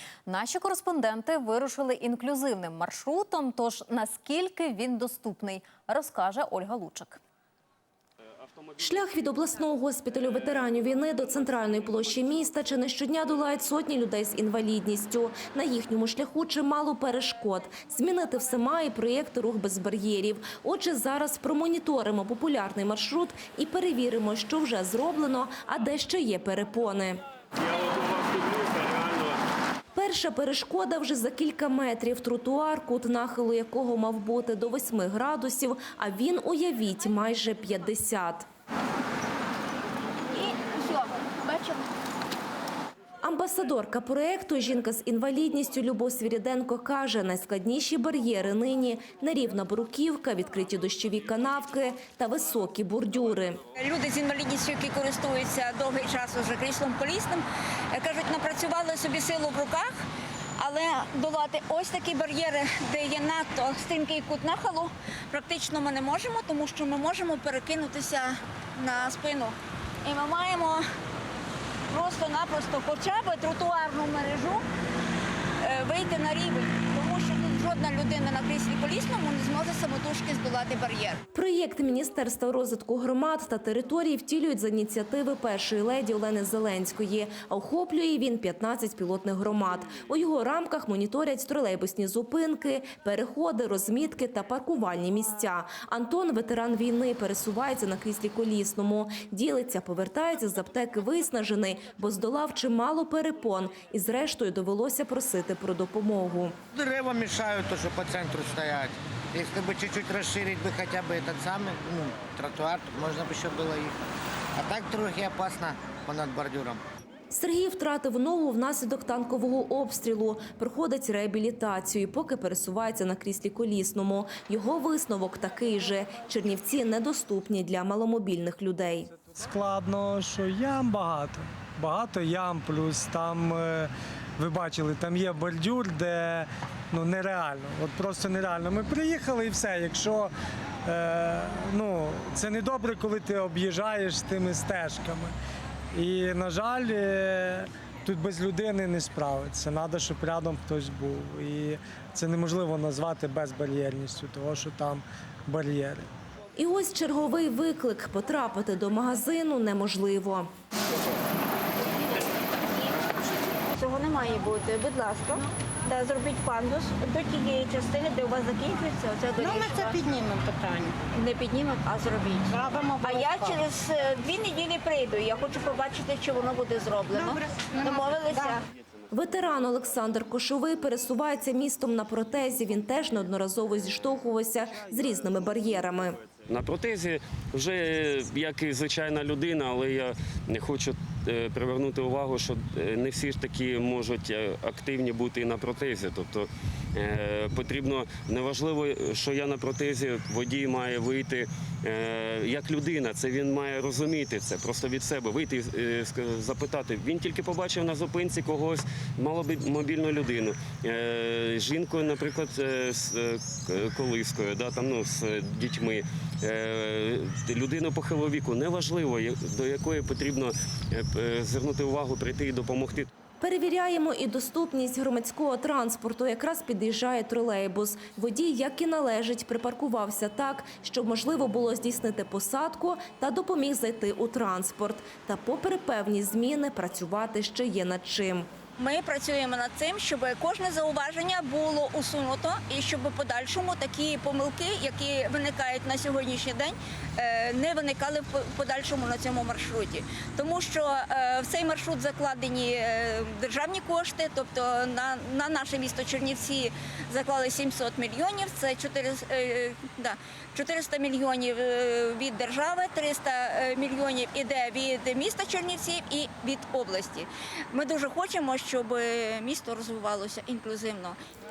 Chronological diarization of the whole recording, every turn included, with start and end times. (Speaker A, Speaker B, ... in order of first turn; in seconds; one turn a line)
Speaker A: 0.2-7.2
Speaker B: 8.8-27.2
Speaker B: 29.9-38.5
Speaker C: 40.3-41.9
Speaker B: 43.2-53.6
Speaker C: 53.7-60.0
Speaker C: 60.6-70.8
Speaker C: 71.9-74.6
Speaker C: 75.6-81.2
Speaker B: 81.3-106.6
Speaker D: 106.7-113.9
Speaker D: 114.6-116.8
Speaker B: 117.3-129.1
Speaker E: 129.3-140.3
Speaker E: 140.8-145.3
Speaker E: 145.9-156.1
Speaker B: 156.6-160.5
Speaker C: 163.7-170.0
Speaker F: 169.4-171.0
Speaker C: 171.1-178.6
Speaker F: 172.5-173.6
Speaker F: 177.2-178.6
Speaker B: 179.1-186.2
Speaker G: 186.4-223.1
Speaker B: 223.4-238.5
Speaker C: 238.8-271.2